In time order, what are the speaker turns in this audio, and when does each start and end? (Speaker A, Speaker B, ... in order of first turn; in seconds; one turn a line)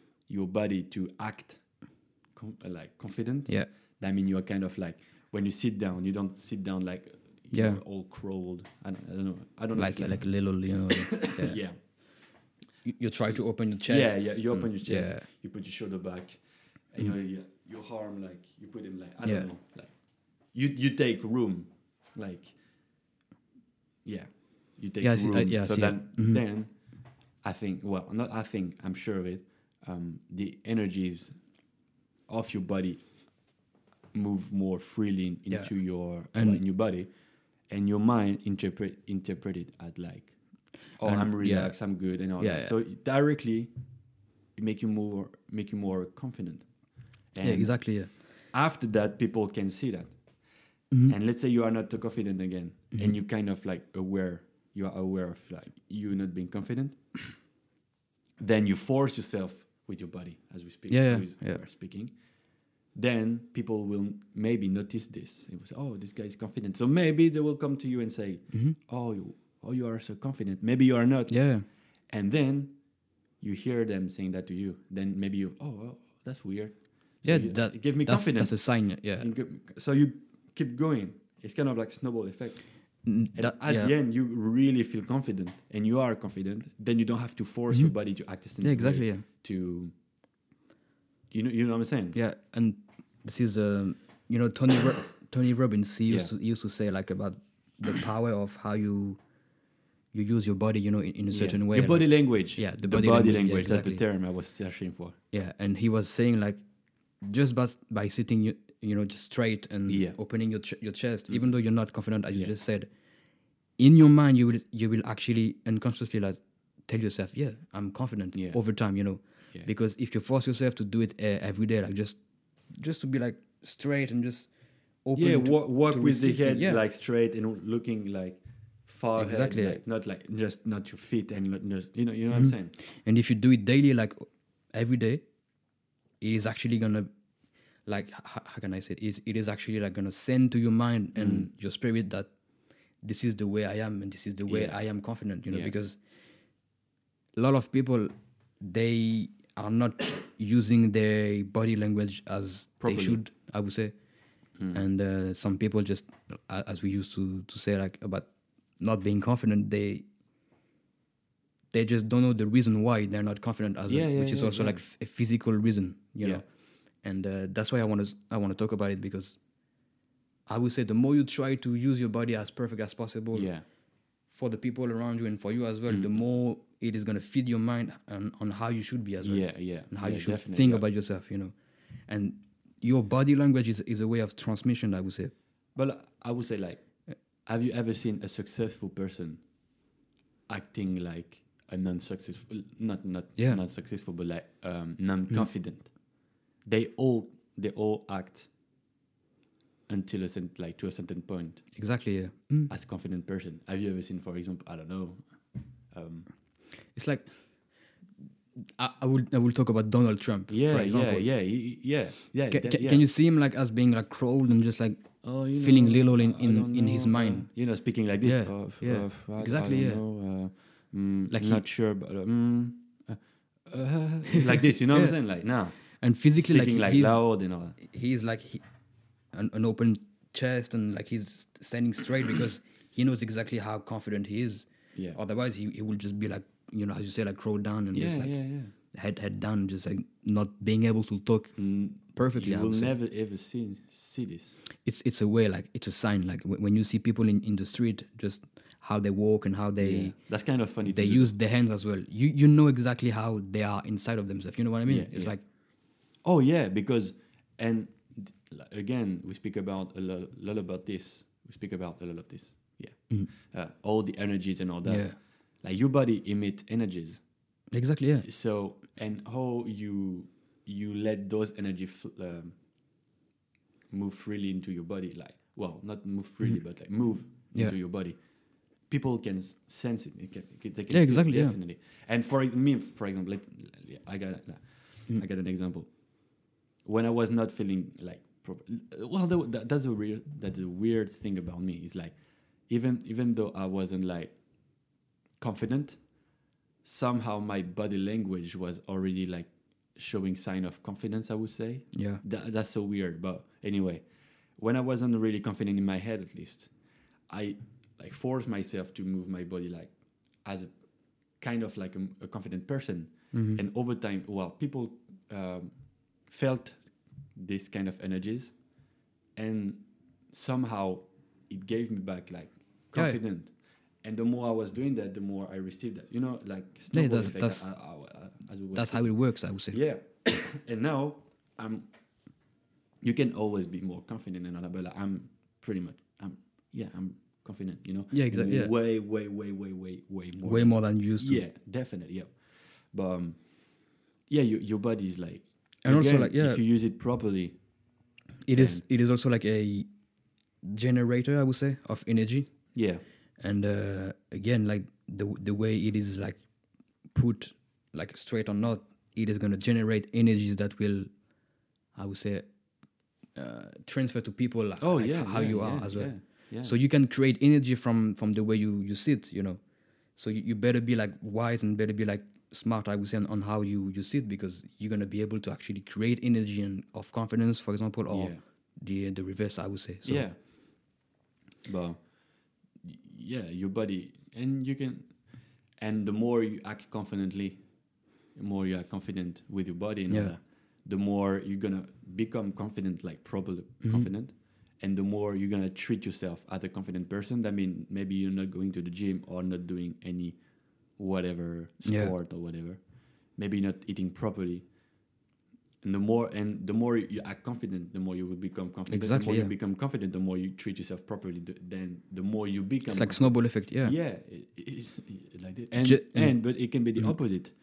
Speaker A: 0.3-11.8
Speaker B: 7.5-7.8
Speaker B: 9.8-12.0
Speaker B: 12.8-15.3
Speaker A: 13.3-22.6
Speaker B: 19.2-19.5
Speaker A: 24.0-26.8
Speaker B: 25.0-26.4
Speaker A: 27.4-31.4
Speaker A: 32.3-33.3
Speaker A: 34.1-37.1
Speaker B: 35.5-36.6
Speaker A: 37.7-43.7
Speaker B: 41.0-42.8
Speaker A: 44.5-46.7
Speaker A: 47.3-50.2
Speaker B: 47.4-48.2
Speaker B: 50.9-51.2
Speaker A: 51.0-57.5
Speaker A: 58.4-89.9
Speaker B: 60.9-61.6
Speaker B: 68.5-68.8
Speaker B: 71.3-71.7
Speaker B: 77.2-79.3
Speaker B: 83.0-84.0
Speaker B: 87.7-89.3
Speaker A: 91.3-92.2
Speaker B: 92.1-99.2
Speaker B: 100.1-104.0
Speaker A: 101.3-105.2
Speaker B: 105.3-106.6
Speaker B: 107.2-112.9
Speaker A: 109.9-110.2
Speaker B: 113.8-122.2
Speaker A: 118.3-118.6
Speaker B: 122.7-124.5
Speaker B: 125.0-126.9
Speaker A: 125.2-132.7
Speaker B: 129.2-129.8
Speaker B: 132.3-135.3
Speaker B: 136.2-137.1
Speaker B: 137.8-142.3
Speaker A: 141.2-141.5
Speaker B: 143.0-146.0
Speaker A: 144.5-144.8
Speaker A: 145.5-145.8
Speaker B: 147.3-153.9
Speaker A: 152.8-153.2
Speaker A: 154.6-154.8
Speaker B: 154.7-160.1
Speaker B: 161.7-166.5
Speaker A: 163.9-164.8
Speaker B: 167.0-169.4
Speaker B: 170.5-173.5
Speaker A: 173.3-173.7
Speaker B: 174.3-181.5
Speaker A: 175.9-176.2
Speaker A: 179.2-180.9
Speaker B: 182.1-185.3
Speaker A: 185.8-186.9
Speaker A: 187.4-189.4
Speaker A: 190.5-198.5
Speaker B: 193.4-193.6
Speaker A: 199.9-201.7
Speaker B: 201.8-202.7
Speaker A: 202.7-205.3
Speaker A: 205.9-206.3
Speaker B: 206.9-207.4
Speaker B: 208.6-211.3
Speaker A: 210.5-213.1
Speaker B: 212.5-217.5
Speaker A: 215.2-227.8
Speaker B: 218.2-220.0
Speaker B: 221.3-221.7
Speaker B: 224.3-225.2
Speaker B: 225.8-227.2
Speaker B: 227.8-228.6
Speaker B: 229.3-238.4
Speaker A: 234.9-235.2
Speaker A: 237.9-238.7
Speaker B: 238.9-243.0
Speaker A: 241.6-244.6
Speaker B: 244.8-255.4
Speaker A: 249.8-251.3
Speaker A: 254.8-255.4
Speaker A: 256.2-267.2
Speaker B: 264.9-265.2
Speaker B: 267.7-268.3
Speaker A: 268.2-272.6
Speaker A: 273.9-294.4
Speaker B: 276.4-277.8
Speaker B: 280.9-281.6
Speaker A: 295.4-296.0
Speaker A: 296.8-306.7
Speaker B: 301.9-302.2
Speaker A: 307.3-318.8
Speaker B: 313.3-313.6
Speaker A: 319.4-331.9
Speaker B: 322.9-323.2
Speaker B: 326.9-327.7
Speaker B: 328.7-329.8
Speaker A: 333.0-347.6
Speaker B: 338.1-338.7
Speaker B: 340.4-341.4
Speaker B: 345.8-346.6
Speaker B: 348.5-349.9
Speaker A: 348.5-348.8
Speaker B: 350.6-352.5
Speaker A: 352.7-353.0
Speaker B: 353.4-356.4
Speaker B: 357.1-361.1
Speaker B: 361.9-362.5
Speaker B: 363.3-369.6
Speaker A: 364.8-366.8
Speaker B: 370.1-380.3
Speaker A: 378.1-378.4
Speaker A: 380.1-380.4
Speaker A: 381.6-387.7
Speaker A: 388.3-404.7
Speaker B: 390.1-390.4
Speaker B: 393.8-394.1
Speaker B: 401.8-402.1
Speaker A: 405.8-417.5
Speaker B: 408.9-409.5
Speaker B: 412.9-414.0
Speaker B: 415.8-417.2